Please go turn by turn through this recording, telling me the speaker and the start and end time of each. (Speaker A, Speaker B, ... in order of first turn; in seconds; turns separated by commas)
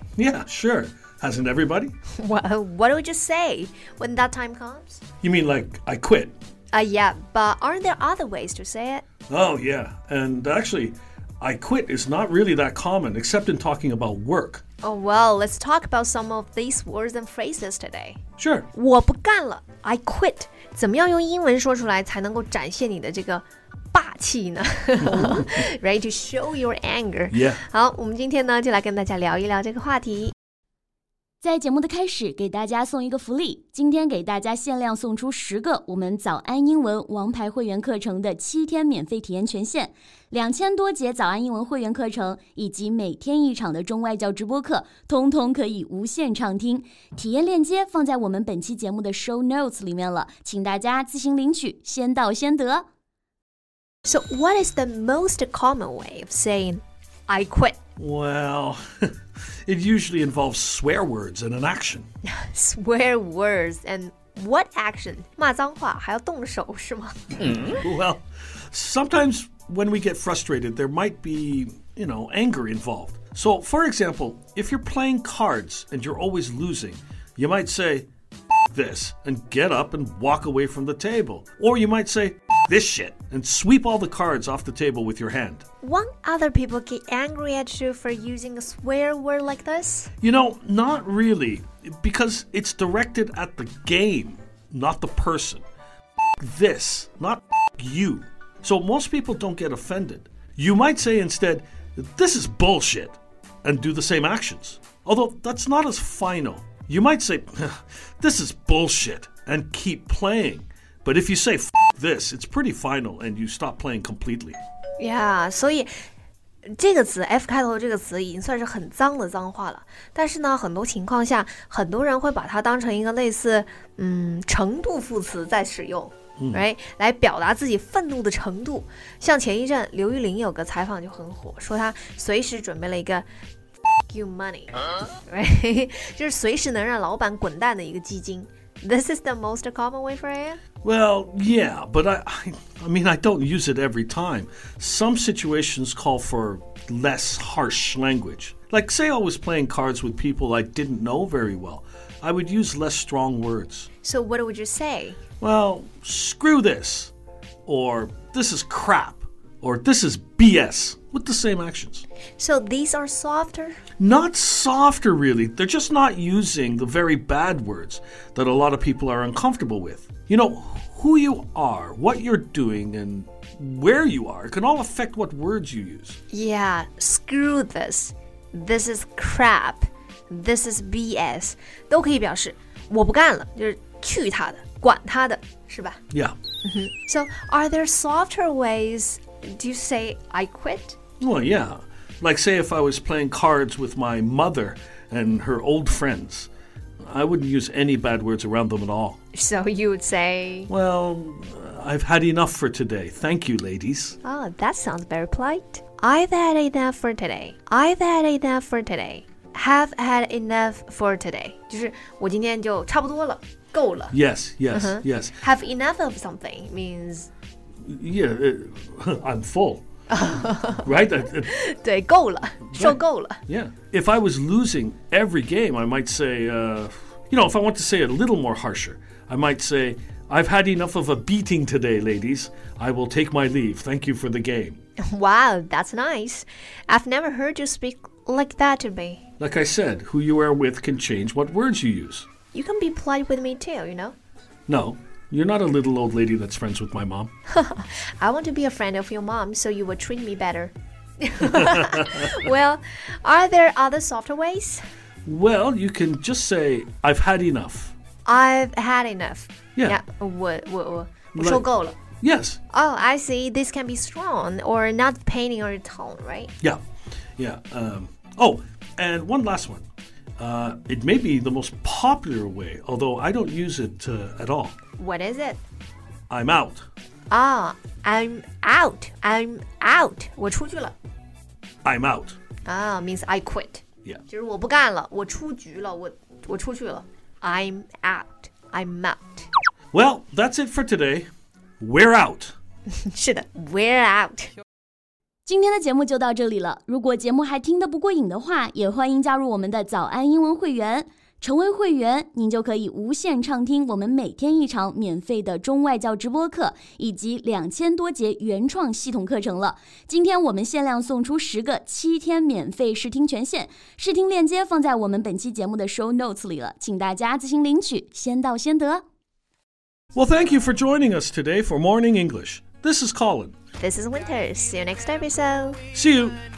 Speaker A: 0.2-1.9, Speaker B: 2.2-5.0, Speaker A: 5.2-6.3, Speaker B: 6.7-9.1, Speaker A: 9.3-14.6, Speaker B: 14.8-18.2, Speaker A: 18.4-18.7, Speaker B: 18.7-30.3, Speaker A: 25.0-25.6, Speaker A: 27.3-27.6, Speaker C: 31.4-52.9, Speaker B: 54.0-57.8, Speaker A: 58.0-59.1, Speaker A: 59.6-62.1, Speaker B: 62.2-67.7, Speaker A: 67.4-78.1, Speaker A: 78.7-85.6, Speaker B: 85.8-90.1, Speaker A: 90.2-95.6, Speaker A: 96.4-114.6, Speaker B: 115.0-115.9, Speaker B: 116.7-133.3, Speaker A: 126.4-126.6, Speaker B: 134.1-140.6, Speaker A: 140.8-153.9, Speaker B: 154.0-155.2, Speaker A: 155.4-157.1, Speaker A: 157.7-162.1, Speaker B: 162.4-163.8, Speaker A: 164.0-176.2, Speaker B: 176.3-186.0, Speaker B: 186.6-191.0, Speaker A: 191.2-196.5, Speaker A: 197.0-199.2, Speaker B: 199.3-200.7, Speaker A: 200.7-204.2, Speaker B: 204.2-214.2, Speaker A: 214.1-215.4, Speaker B: 214.7-217.3, Speaker A: 217.8-219.8, Speaker B: 220.1-220.9, Speaker A: 220.8-221.5, Speaker B: 221.4-223.4, Speaker A: 222.7-234.8, Speaker B: 235.0-239.2, Speaker A: 239.4-242.3, Speaker B: 242.5-244.2, Speaker A: 244.7-247.3, Speaker B: 247.5-254.8, Speaker A: 251.5-252.3, Speaker A: 255.3-257.9, Speaker B: 258.2-262.0, Speaker A: 261.4-261.7, Speaker A: 262.2-262.6, Speaker B: 262.7-266.5, Speaker A: 267.4-269.9, Speaker A: 270.4-274.8, Speaker B: 275.0-275.6, Speaker A: 276.3-276.9, Speaker B: 277.3-281.0, Speaker A: 281.9-282.4, Speaker B: 282.6-289.5, Speaker A: 289.9-291.3, Speaker A: 291.8-292.6, Speaker B: 292.9-294.5, Speaker C: 295.5-319.0, Speaker A: 320.1-323.5, Speaker B: 323.8-325.8, Speaker A: 325.9-326.4